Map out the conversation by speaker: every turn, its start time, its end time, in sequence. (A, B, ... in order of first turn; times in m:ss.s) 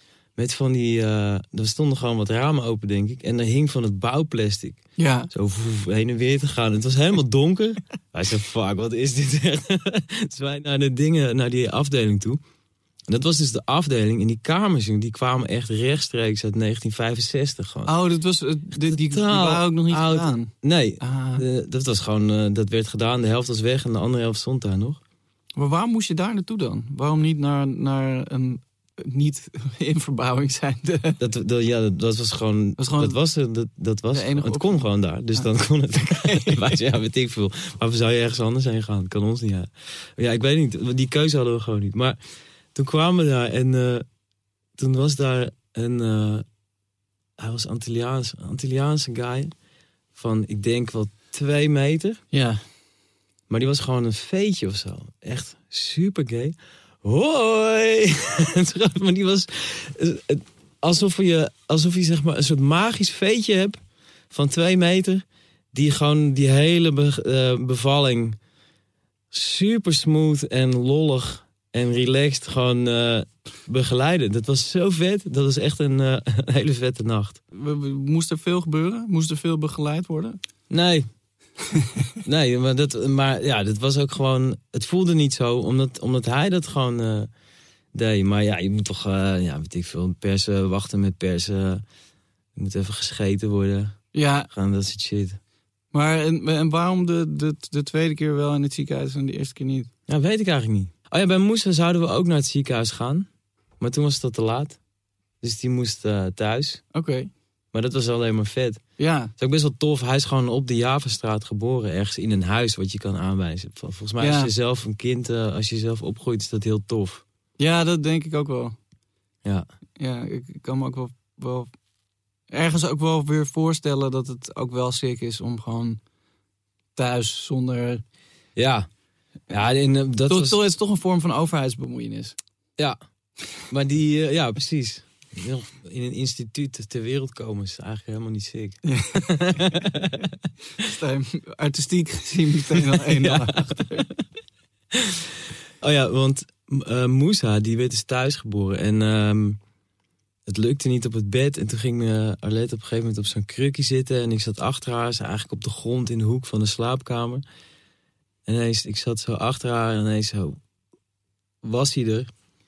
0:00.4-0:12.4 A
0:05.0-0:05.3 B
0:13.1-0:17.9 A
0:17.8-0:21.4 B
0:18.7-0:25.0 A
0:25.6-0:31.2 B
0:31.2-0:42.2 A
0:32.8-0:33.2 B
0:34.1-0:35.5 B
0:36.0-0:36.7 B
0:42.7-0:44.0 A
0:44.8-0:46.4 A
0:47.4-0:49.5 A
0:50.1-0:52.2 A
0:52.3-0:52.6 B
0:53.5-1:03.8 A
1:04.3-1:08.4 A
1:09.3-1:17.4 A
1:17.5-1:20.4 B
1:20.7-1:21.0 A
1:21.7-1:22.0 B
1:22.2-1:27.3 A
1:27.9-1:31.8 A
1:32.6-1:34.0 A
1:34.1-1:34.5 B
1:34.5-1:35.4 A
1:35.9-1:39.9 B
1:40.1-1:43.3 A
1:43.8-1:44.8 A
1:45.4-1:46.8 A
1:46.9-1:47.3 B
1:47.7-1:48.8 A
1:49.0-1:49.3 B
1:49.4-1:57.2 A
1:54.2-1:54.5 B
1:57.6-1:58.8 B
2:00.0-2:01.7 B
2:02.5-2:06.0 B
2:07.0-2:08.0 B
2:08.6-2:08.9 A
2:09.5-2:10.6 A
2:10.3-2:12.3 B
2:13.7-2:20.4 A
2:18.8-2:19.8 B
2:20.8-2:24.1 B
2:22.8-2:24.0 A
2:24.9-2:25.3 A
2:25.8-2:29.6 A
2:30.4-2:37.4 A
2:38.4-2:40.6 A
2:41.6-2:42.3 A